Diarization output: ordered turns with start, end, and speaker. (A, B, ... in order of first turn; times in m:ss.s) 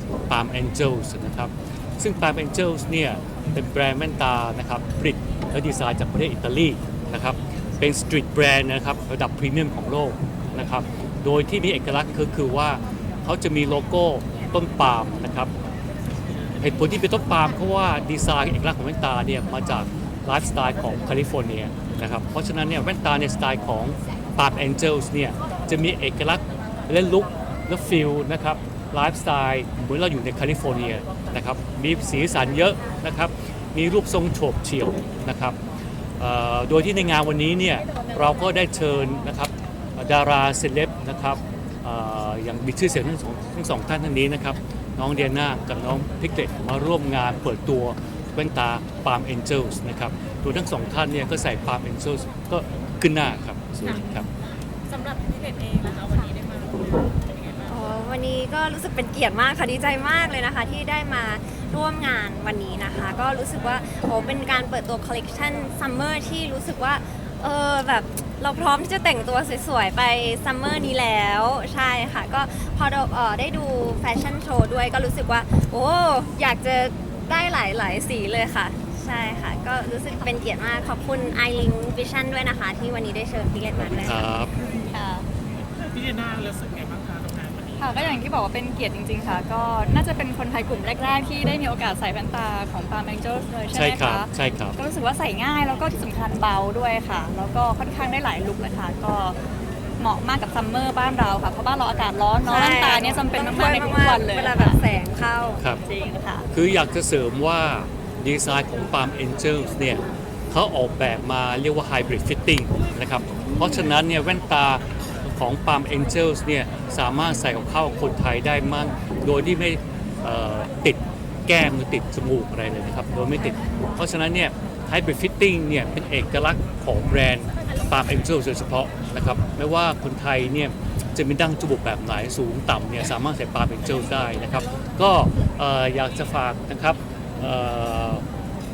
0:00.3-0:15.5 A
0:16.6-0:35.6 A
0:36.2-0:54.3 A
0:54.0-0:54.2 B
0:54.9-0:57.0 C
0:57.6-1:24.2 D
1:24.0-1:24.5 A
1:24.8-1:25.3 B
1:25.8-1:27.7 C
1:27.8-1:39.4 B
1:33.7-1:34.8 A
1:40.0-1:44.8 B
1:42.4-1:45.6 D
1:45.8-1:46.5 B
1:46.5-2:18.2 A